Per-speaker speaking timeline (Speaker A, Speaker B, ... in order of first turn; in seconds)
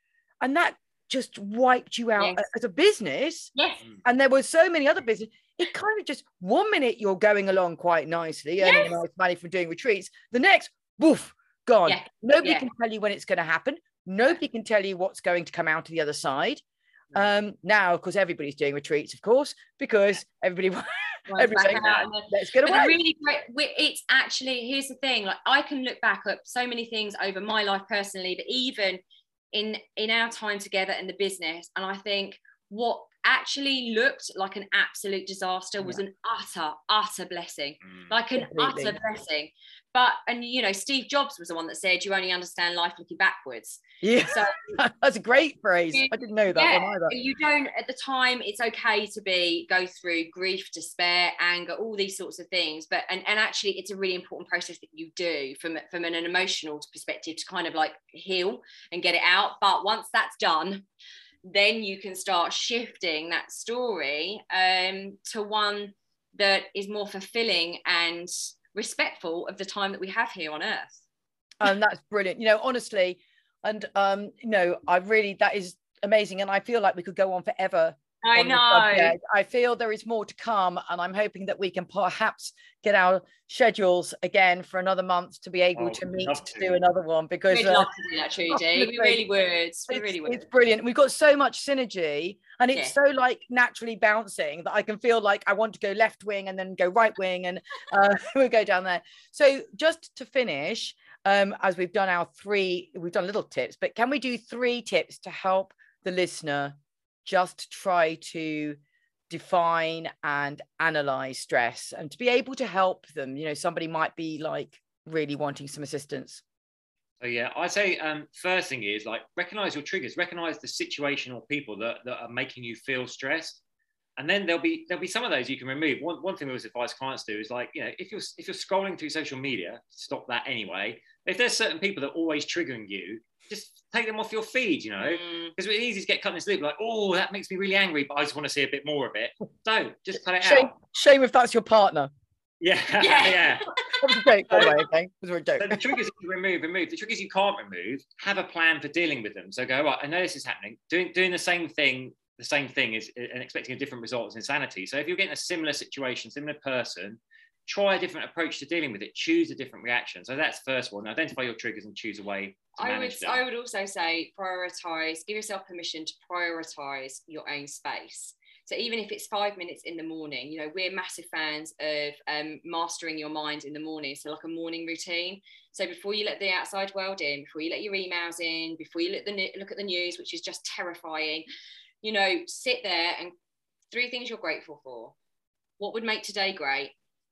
Speaker A: 0.4-3.5, 4.0-23.0, 38.4-39.0, 44.0-47.1, 71.6-87.9, 88.5-89.2, 89.9-108.8, 109.3-116.4, 140.4-142.1, 144.0-146.0
Speaker B: 2.2-2.4, 3.5-3.8, 8.6-9.0, 11.9-12.7, 21.3-29.0, 29.5-44.6, 45.9-60.9, 61.5-71.0, 78.2-79.2, 87.5-90.5, 135.0-135.5, 143.0-143.9, 162.8-181.5, 182.0-183.3, 183.9-185.2, 185.8-186.9
Speaker C: 85.8-86.8, 117.2-123.6, 124.2-140.7, 142.6-143.7, 144.5-144.8, 145.6-163.4